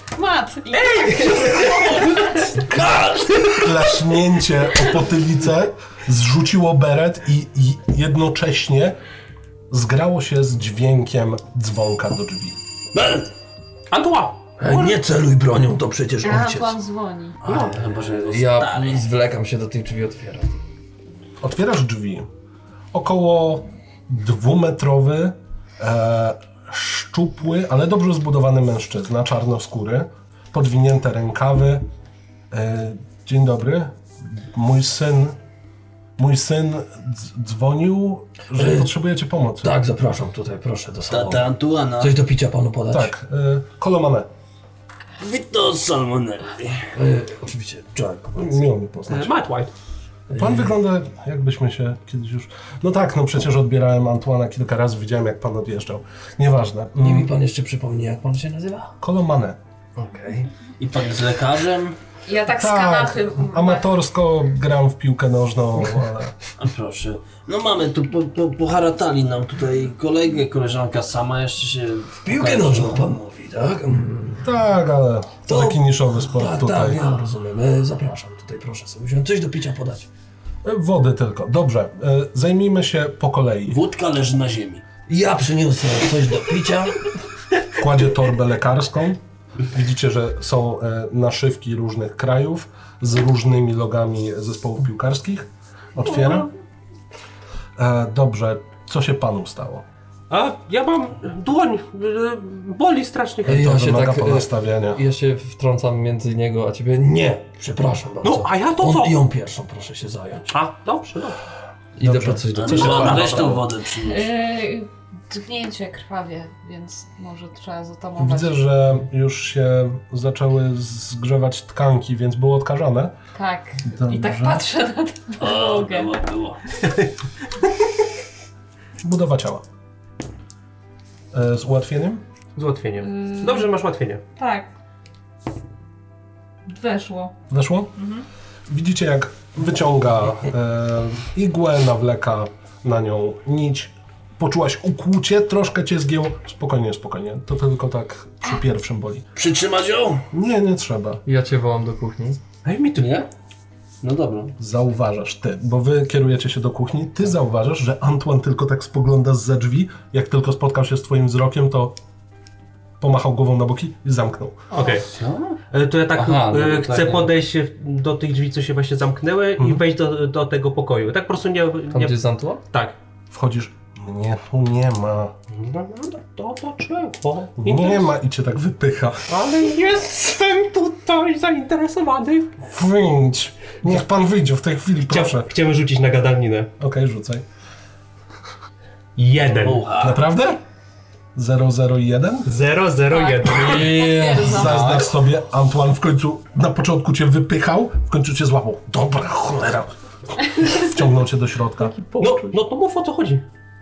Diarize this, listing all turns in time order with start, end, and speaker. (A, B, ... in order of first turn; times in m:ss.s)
0:00.1-0:02.0 A
0:00.9-0:02.2 B
0:01.2-0:02.0 C
0:01.6-0:03.6 D
0:02.7-0:09.0 E
0:09.7-0:12.6 E
0:12.9-0:13.3 D
0:13.9-0:14.9 B
0:14.6-0:16.8 C
0:16.2-0:17.4 A
0:17.4-0:19.0 D
0:18.2-0:20.6 F
0:21.4-0:22.3 E
0:22.9-0:31.8 E
0:32.5-0:35.4 E
0:36.2-0:39.7 E
0:38.5-0:38.9 C
0:39.6-0:43.1 C
0:41.1-0:42.2 D
0:42.9-0:44.3 E
0:45.2-0:46.9 D
0:46.9-0:48.6 C
0:48.4-0:49.3 E
0:49.1-0:49.7 B
0:50.3-0:50.7 C
0:50.3-0:57.3 E
0:57.0-0:58.9 C
0:59.0-0:59.6 E
1:00.0-1:00.5 C
1:00.8-1:02.0 D
1:02.2-1:03.8 A
1:02.5-1:06.3 E
1:06.6-1:13.1 D
1:12.2-1:14.5 C
1:14.4-1:17.0 E
1:15.4-1:20.1 C
1:20.6-1:23.8 E
1:23.7-1:24.8 D
1:25.1-1:27.0 C
1:27.8-1:36.5 E
1:37.8-1:39.8 E
1:40.3-1:43.7 B
1:43.4-1:47.1 F
1:43.5-1:45.0 E
1:46.9-1:50.5 C
1:48.2-1:49.2 B
1:50.5-1:51.4 B
1:52.0-1:53.6 F
1:52.0-1:53.6 E
1:52.5-1:54.3 D
1:52.8-1:53.3 C
1:54.0-1:58.6 A
1:58.2-2:03.1 E
2:03.3-2:06.1 A
2:03.8-2:04.6 E
2:05.4-2:06.6 D
2:09.0-2:09.6 E
2:11.3-2:12.2 E
2:12.6-2:14.2 B
2:13.0-2:13.7 A
2:14.4-2:14.7 A
2:16.7-2:17.3 A
2:17.5-2:17.9 E
2:18.0-2:18.2 A
2:18.7-2:29.3 E
2:29.4-2:30.2 D
2:30.3-2:31.2 E
2:31.2-2:32.4 F
2:32.6-2:33.2 B
2:33.0-2:33.3 D
2:34.0-2:34.5 D
2:34.6-2:41.9 E
2:43.0-2:44.6 E
2:44.7-2:45.1 B
2:44.8-2:45.6 D
2:45.7-2:53.0 B
2:46.2-2:47.2 F
2:51.9-2:52.6 F
2:53.3-2:55.3 E
2:55.5-2:58.1 B
2:57.6-2:59.3 E
2:59.3-3:02.5 B
3:02.6-3:05.5 E
3:05.1-3:06.7 B
3:06.8-3:07.4 E
3:09.2-3:09.9 B
3:09.6-3:10.2 D
3:10.0-3:10.6 E
3:11.3-3:12.5 E
3:12.4-3:14.0 B
3:13.1-3:14.9 A
3:13.5-3:15.0 F
3:14.4-3:19.9 E
3:14.6-3:15.0 B
3:20.5-3:22.0 E
3:21.8-3:22.6 F
3:22.2-3:23.4 B